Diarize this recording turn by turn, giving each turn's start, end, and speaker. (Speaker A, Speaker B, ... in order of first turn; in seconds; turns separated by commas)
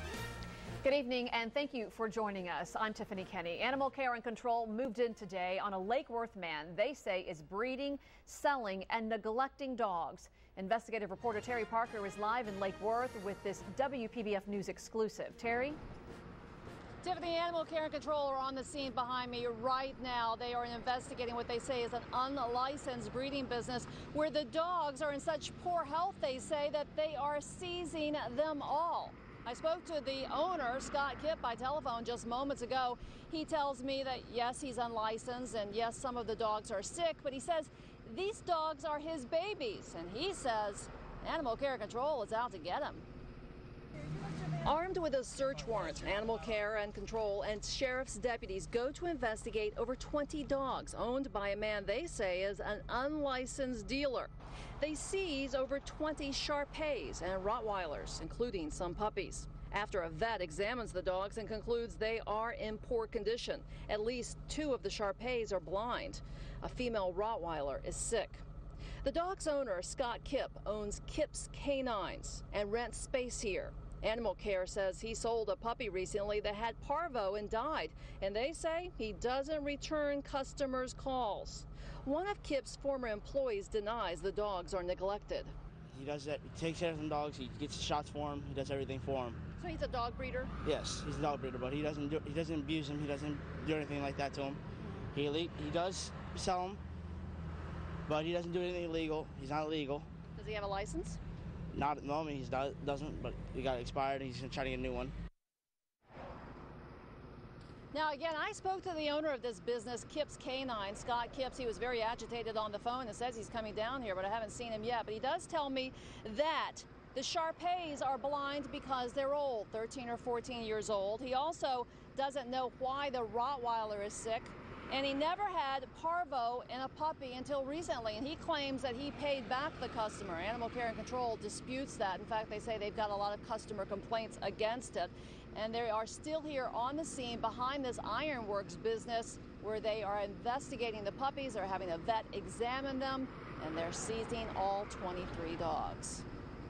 Speaker A: 0.8-15.8, Speaker B: 17.0-43.0, Speaker B: 44.6-68.4, Speaker B: 69.0-85.5, Speaker C: 85.9-89.4, Speaker B: 89.6-90.5, Speaker C: 90.6-94.6, Speaker C: 95.1-96.8, Speaker C: 98.0-100.1, Speaker B: 100.3-101.2, Speaker C: 101.7-105.1, Speaker B: 107.9-146.2